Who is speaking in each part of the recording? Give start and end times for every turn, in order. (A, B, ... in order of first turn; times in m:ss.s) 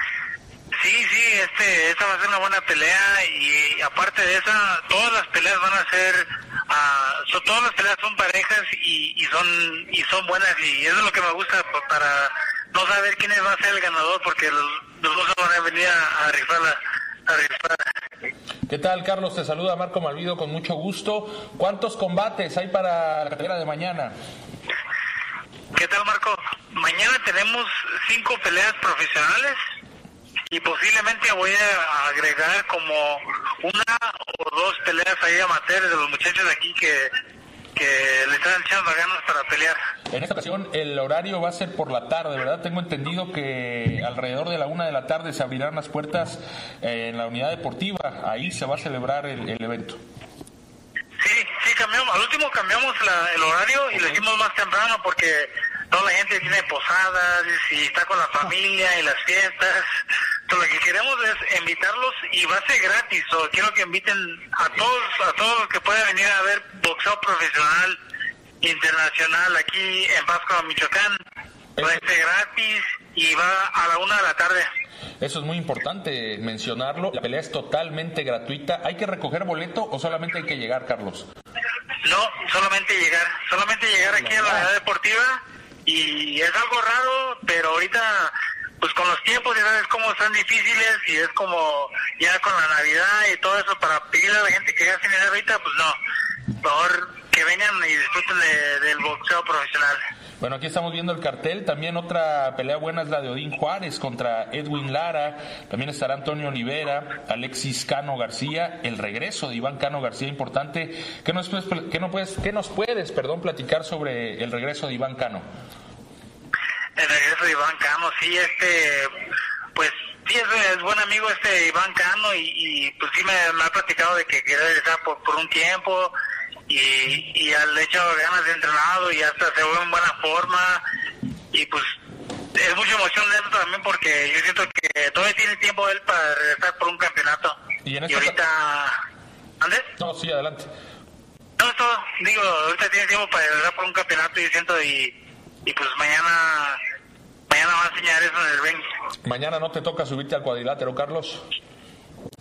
0:00.8-0:17.8 A
0:18.7-0:24.1 B
0:25.7-0:29.6 A
0:30.5-0:37.1 A
0:37.7-0:39.8 A
0:40.1-0:50.0 B
0:51.2-0:59.9 A
1:00.5-1:08.0 A
1:08.6-1:11.2 A
1:11.8-1:12.0 B
1:11.8-1:14.7 A
1:15.2-1:21.3 B
1:22.0-1:36.0 A
1:36.6-1:40.0 A
1:40.4-1:55.4 B
1:57.0-1:59.2 A
1:59.7-2:06.1 A
2:06.7-2:10.8 A
2:11.5-2:11.9 A
2:12.5-2:17.6 A
2:17.8-2:18.4 B
2:18.1-2:19.0 A
2:19.6-2:19.9 A
2:20.0-2:20.7 B
2:21.6-2:26.8 A
2:27.5-2:28.9 A
2:29.2-2:31.4 B